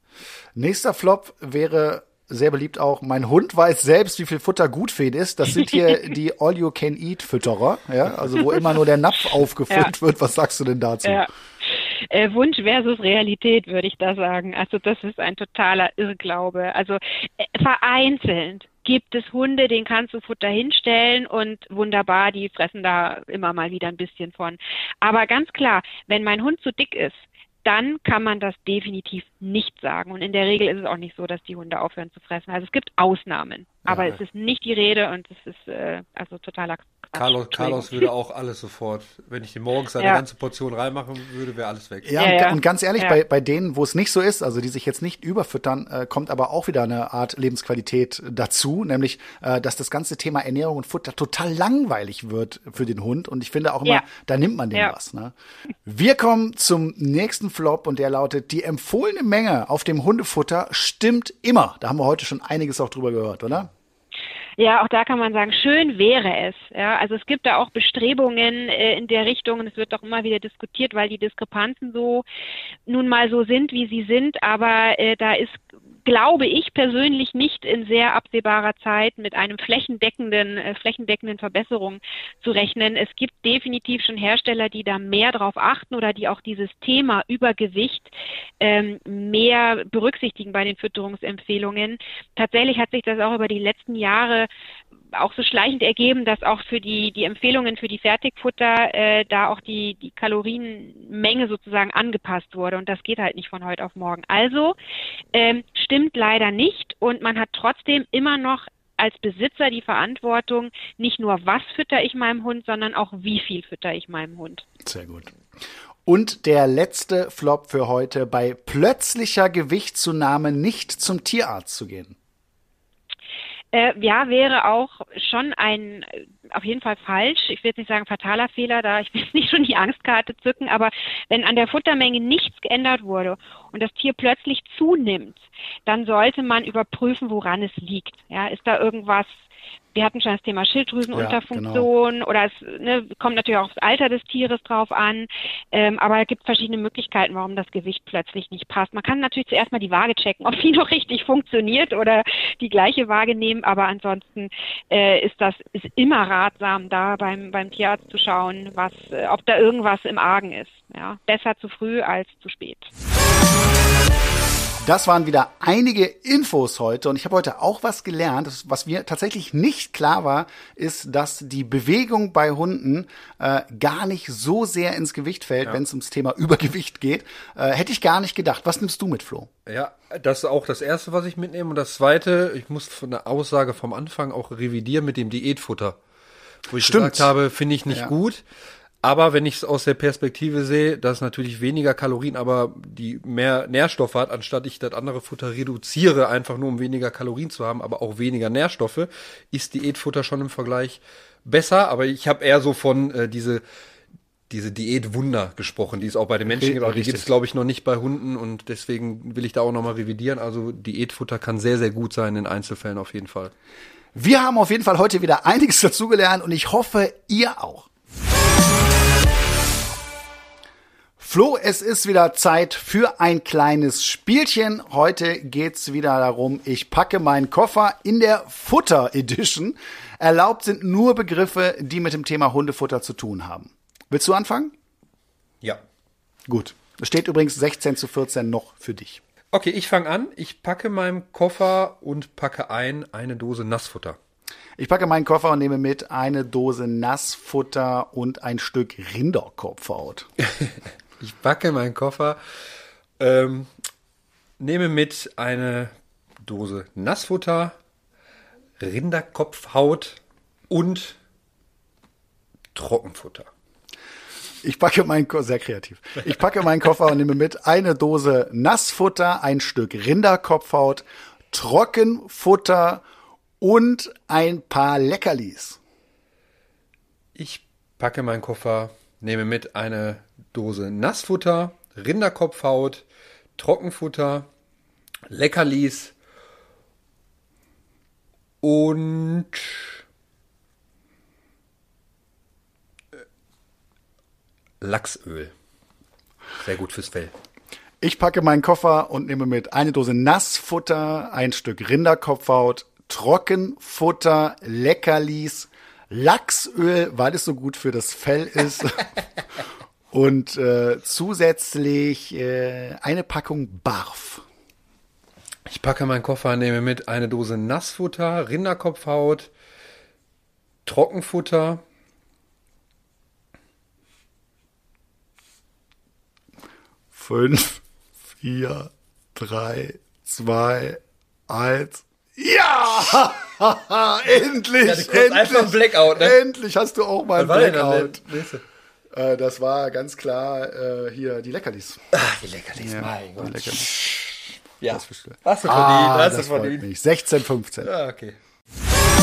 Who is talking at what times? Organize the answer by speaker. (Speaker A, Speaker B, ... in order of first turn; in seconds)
Speaker A: 0.5-11.2, 42.0-55.3, 55.9-63.7, 114.8-115.3, 116.0-122.2, 141.1-141.9, 164.8-179.5, 186.8-187.3, 206.5-207.3, 214.1-217.9, 221.2-234.7, 236.5-239.2, 244.8-250.3, 264.6-273.0, 273.6-275.8, 298.0-309.1, 310.1-314.4, 327.1-327.8, 328.4-338.2, 339.1-342.0, 342.8-343.9, 344.9-347.9
Speaker B: 11.0-38.1, 42.2-43.2, 64.6-72.2, 72.9-94.5, 95.1-104.7, 105.3-114.6, 123.7-162.9
Speaker C: 37.1-42.1, 179.7-186.0, 186.7-188.4, 189.0-203.6, 204.5-213.5, 239.5-244.2, 251.2-252.4, 253.2-253.7, 254.6-255.9, 256.4-257.7, 258.8-260.2, 260.7-261.2, 262.7-263.5, 277.4-283.0, 283.6-284.5, 285.3-286.1, 288.6-289.9, 294.8-295.5, 296.6-297.3, 315.7-319.5, 320.9-321.8, 334.8-336.4, 337.4-338.6, 342.1-346.9, 347.8-348.4